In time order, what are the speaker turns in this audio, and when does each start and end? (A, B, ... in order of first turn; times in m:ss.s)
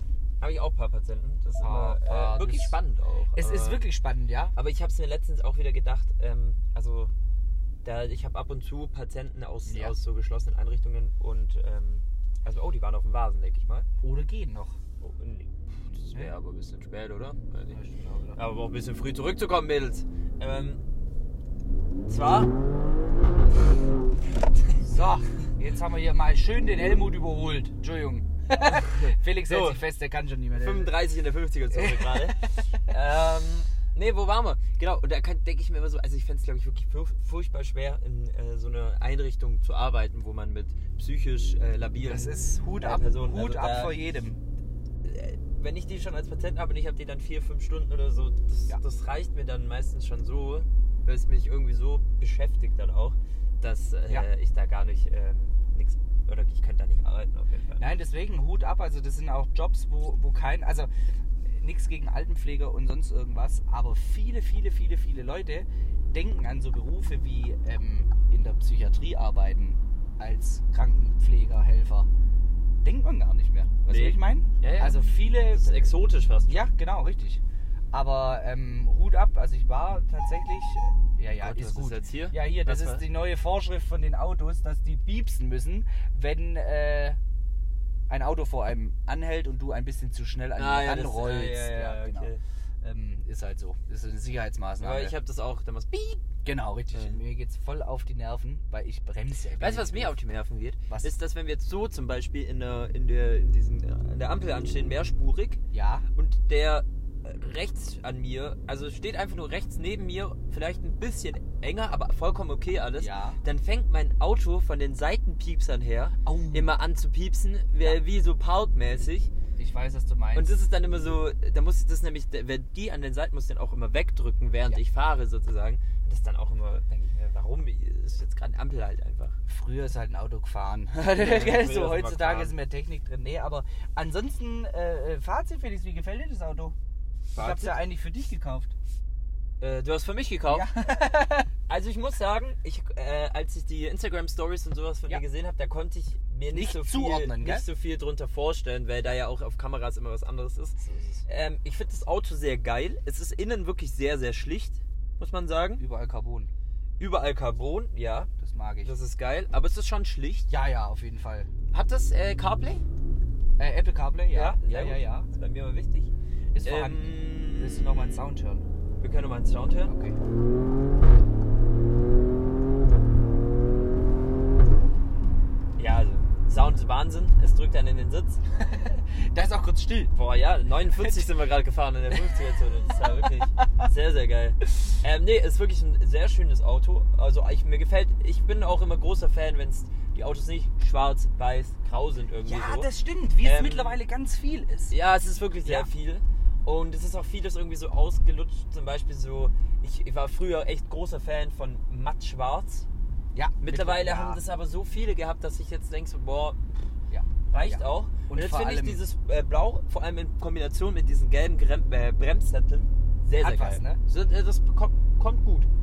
0:00.4-0:03.8 A
0:01.6-0:02.8 B
0:03.3-0:04.5 B
0:04.6-0:07.1 A
0:07.8-0:13.9 A
0:09.7-0:10.0 B
0:14.0-0:14.8 B
0:15.0-0:17.8 A
0:17.7-0:18.4 B
0:18.4-0:20.8 A
0:22.1-0:22.5 A
0:24.8-0:30.9 B
0:28.6-0:29.8 A
0:30.6-0:44.0 A
0:31.7-0:32.4 B
0:42.0-0:44.4 B
0:45.0-0:57.9 A
0:57.8-1:00.9 B
1:01.5-1:12.1 B
1:12.8-1:15.9 B
1:13.9-1:16.7 A
1:16.5-1:17.4 B
1:17.9-1:27.2 B
1:21.4-1:23.0 A
1:28.1-1:32.3 B
1:30.6-1:32.4 A
1:32.8-1:35.2 B
1:34.8-1:36.3 A
1:36.4-1:40.1 B
1:39.6-1:45.6 A
1:45.7-1:46.1 B
1:46.2-1:59.3 A
1:53.0-1:53.4 B
1:56.2-1:56.7 B
1:59.6-2:00.6 B
2:00.4-2:09.4 A
2:09.5-2:16.8 B
2:11.2-2:12.6 A
2:17.3-2:17.8 A
2:17.4-2:18.7 B
2:19.6-2:20.7 A
2:20.5-2:21.5 B
2:21.7-2:35.8 A
2:26.5-2:27.7 B
2:30.8-2:31.2 B
2:35.8-2:36.5 B
2:37.0-2:38.3 A
2:38.4-2:38.9 B
2:38.8-2:40.5 A
2:40.5-2:41.5 B
2:41.7-2:42.8 A
2:43.6-2:45.3 B
2:44.3-2:46.1 A
2:46.5-2:48.7 B
2:46.6-2:48.3 A
2:49.0-2:49.9 A
2:49.9-2:50.2 B
2:55.8-2:58.4 A
2:58.6-3:00.1 B
3:00.2-3:12.9 A
3:00.9-3:01.3 B
3:12.4-3:14.9 B
3:13.4-3:14.0 A
3:14.9-3:22.9 A
3:15.6-3:15.9 B
3:23.3-3:24.4 B
3:23.6-3:26.8 A
3:27.1-3:29.0 B
3:27.5-3:35.7 A
3:33.4-3:34.0 B